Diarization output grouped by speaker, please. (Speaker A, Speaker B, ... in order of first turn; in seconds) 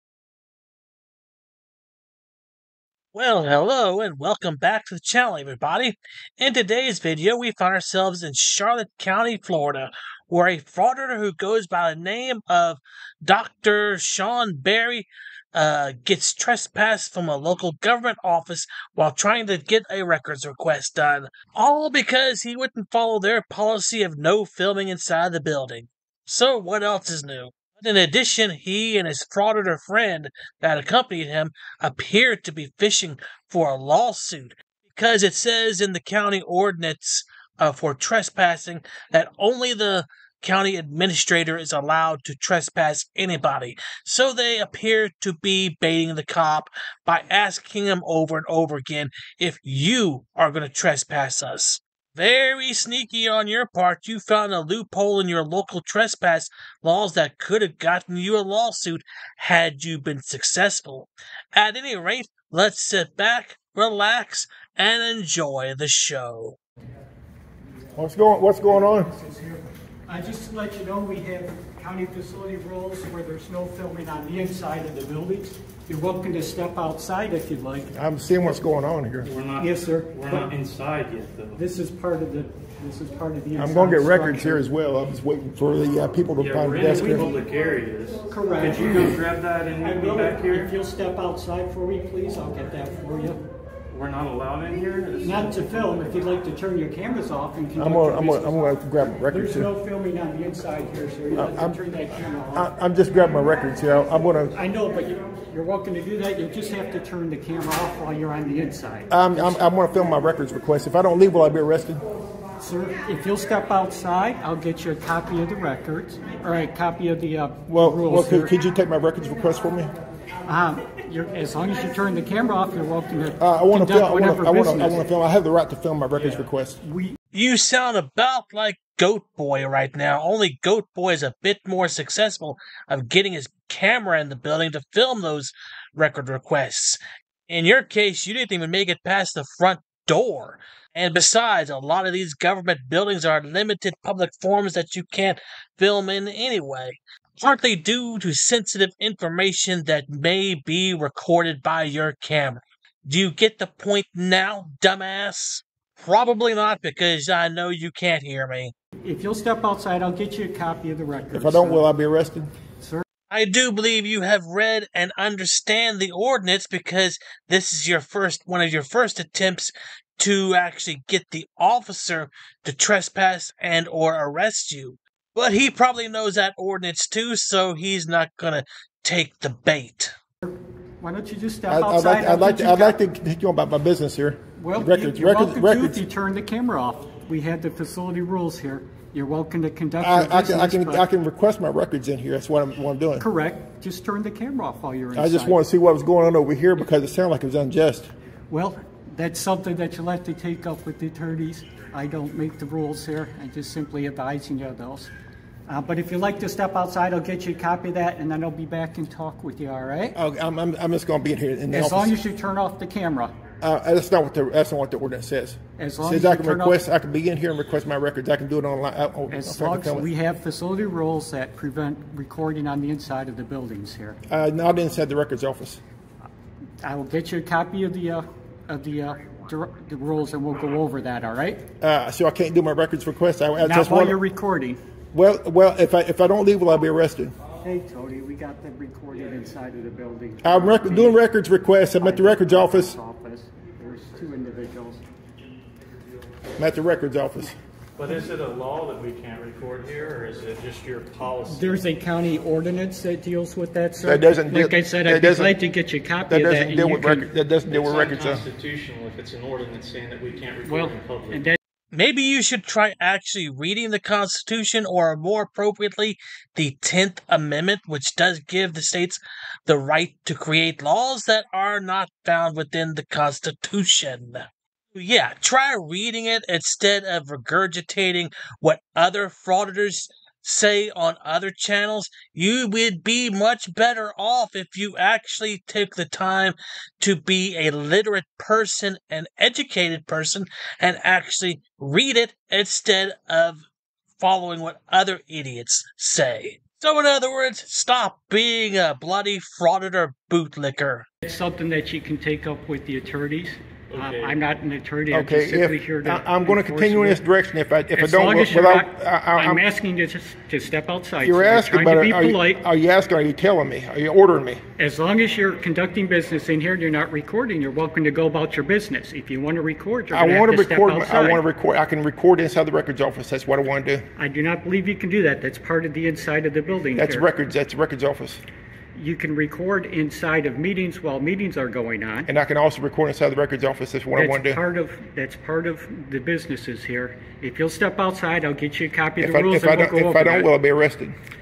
Speaker A: 3.1-66.6, 127.3-158.7, 163.3-180.1, 261.9-293.6, 294.2-301.1
Speaker B: 67.9-69.1, 77.9-79.3, 83.5-87.3, 97.8-99.7, 101.3-101.8, 102.5-104.5, 109.1-112.0, 117.7-119.9, 123.4-126.8, 161.3-162.5, 181.7-186.0, 190.0-193.2, 195.1-198.1, 210.1-212.1, 213.6-220.1, 224.3-225.8, 231.8-234.2, 235.1-237.3, 240.4-242.9, 246.6-247.6, 254.0-255.5, 256.3-258.4, 305.1-309.6, 311.2-314.6, 320.1-324.0, 326.9-328.4, 332.3-334.6, 339.2-341.1
Speaker C: 68.7-77.9, 79.6-80.5, 81.5-84.7, 86.8-87.4, 88.3-89.2, 89.8-93.4, 95.2-98.6, 99.3-102.7, 104.5-109.6, 112.6-118.5, 120.5-125.0, 126.8-127.2, 159.0-161.8, 162.8-163.0, 180.4-183.0, 184.6-191.0, 193.2-195.6, 198.5-205.1, 205.7-210.2, 211.7-213.3, 215.8-216.8, 219.3-224.2, 226.8-231.6, 233.6-234.8, 237.6-241.2, 242.0-245.0, 251.5-257.3, 260.6-261.6, 301.2-307.2, 307.9-312.6, 314.8-321.4, 324.2-327.3, 328.9-332.3, 334.1-340.5
Speaker D: 79.2-81.6, 86.4-90.7, 93.9-95.8, 248.0-251.9, 257.7-261.5, 303.9-304.4